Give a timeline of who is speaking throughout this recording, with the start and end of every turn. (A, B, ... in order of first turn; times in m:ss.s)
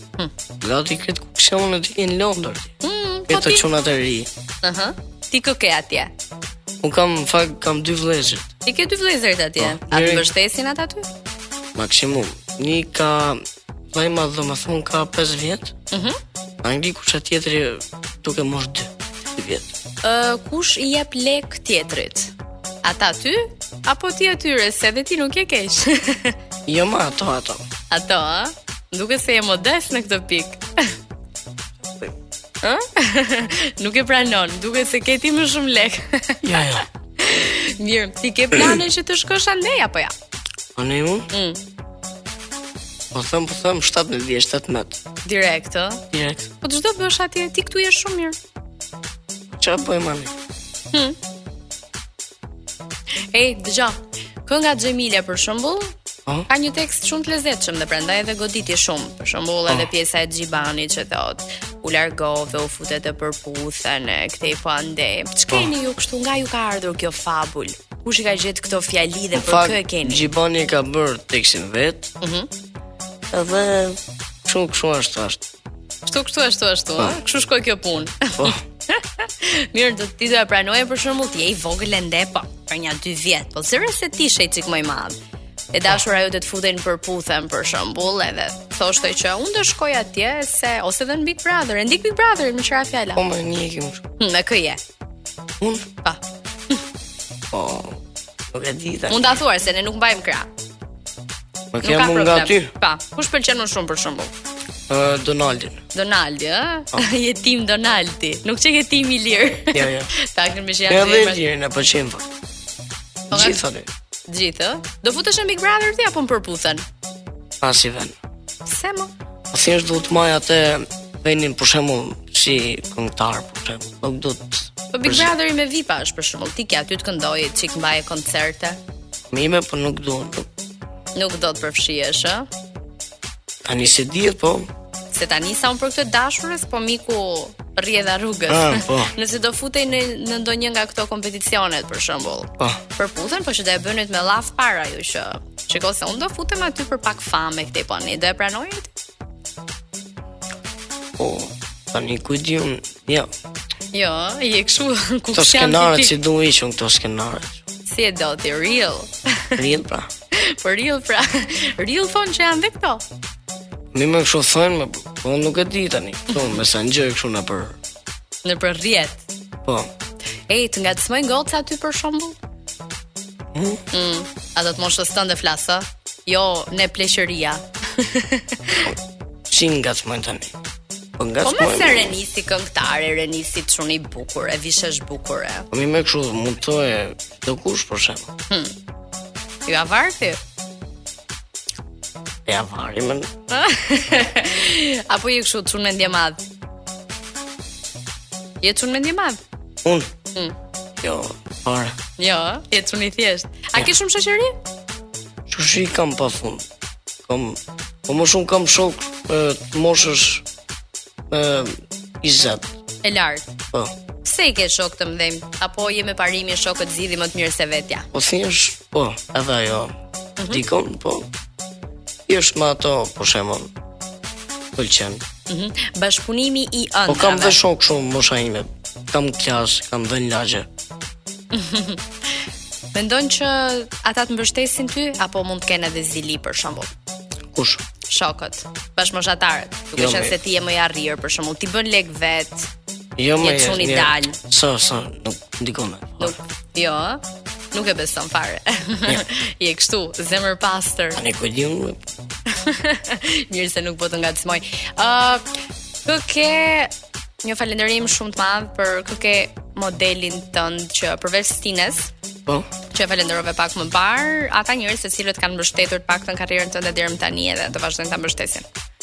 0:00.6-0:02.7 A
0:02.8-0:03.7 B
0:03.3-0:04.3 A
0:04.6-0:06.1 B
0:06.8-0:08.5 A
0:08.6-0:11.1 B
0:09.6-0:10.3 A
0:11.8-0:15.7 A
0:15.9-0:16.2 B
0:16.6-0:19.7 A
0:20.0-0:26.4 B
0:26.7-0:27.6 A
0:27.9-0:30.6 B
0:32.6-0:36.4 B
0:36.4-0:36.9 A
0:37.2-0:40.1 B
0:40.8-0:41.3 A
0:41.3-0:41.6 B
0:43.1-0:45.0 A
0:45.2-0:46.0 B
0:46.1-0:46.5 A
0:46.6-0:48.4 B
0:49.6-0:50.3 A
0:53.3-0:55.9 B
0:56.5-1:10.3 B
1:09.3-1:12.1 A
1:12.2-1:12.5 B
1:13.3-1:15.4 A
1:16.0-1:25.2 B
1:25.7-1:33.2 B
1:33.1-1:34.0 A
1:34.2-1:34.8 B
1:35.6-1:35.9 A
1:36.0-1:36.8 B
1:37.5-1:39.3 A
1:39.1-1:40.5 B
1:41.7-1:42.7 A
1:41.8-1:44.3 B
1:44.9-1:45.8 A
1:45.9-1:51.4 B
1:49.7-1:50.1 A
1:50.9-1:52.3 A
1:53.3-1:53.9 A
1:53.3-1:53.6 B
1:54.3-1:56.8 B
1:57.6-1:58.1 A
1:58.6-1:59.1 B
1:59.5-2:05.3 A
2:04.9-2:08.8 B
2:09.3-2:10.5 A
2:11.1-2:12.5 B
2:13.6-2:14.7 A
2:15.1-2:28.9 B
2:18.5-2:19.1 A
2:31.2-2:33.3 A
2:33.9-2:36.1 B
2:35.3-2:37.6 A
2:37.8-2:39.6 B
2:39.6-2:40.1 A
2:40.3-2:43.0 B
2:43.9-2:47.8 A
2:46.3-2:46.6 B
2:48.4-2:49.2 B
2:49.6-2:49.9 A
2:50.5-2:52.4 B
2:53.5-2:53.8 A
2:53.9-2:58.9 B
2:59.5-3:00.5 A
3:01.2-3:02.2 A
3:01.4-3:05.7 B
3:05.7-3:08.3 A
3:09.6-3:10.4 B
3:12.4-3:13.3 A
3:13.5-3:16.4 B
3:18.6-3:19.4 B
3:19.8-3:20.1 A
3:21.0-3:21.9 A
3:22.2-3:24.6 B
3:25.5-3:26.6 A
3:27.2-3:30.4 A
3:31.3-3:32.7 A
3:33.0-3:33.5 B
3:34.2-3:38.1 B
3:38.1-3:39.9 A
3:40.4-3:40.6 B
3:40.5-3:41.3 A
3:42.3-3:43.7 A
3:44.8-3:45.2 A
3:45.5-3:47.6 B
3:47.1-3:50.7 A
3:51.5-3:52.0 B
3:52.9-3:56.9 B
3:57.5-3:57.8 A
3:58.1-4:02.7 B
3:59.9-4:00.4 A
4:03.2-4:06.4 A
4:03.4-4:04.4 B
4:06.2-4:07.2 B
4:07.7-4:11.2 B
4:11.2-4:12.0 A
4:12.5-4:15.4 B
4:16.0-4:22.1 B
4:22.9-4:28.6 B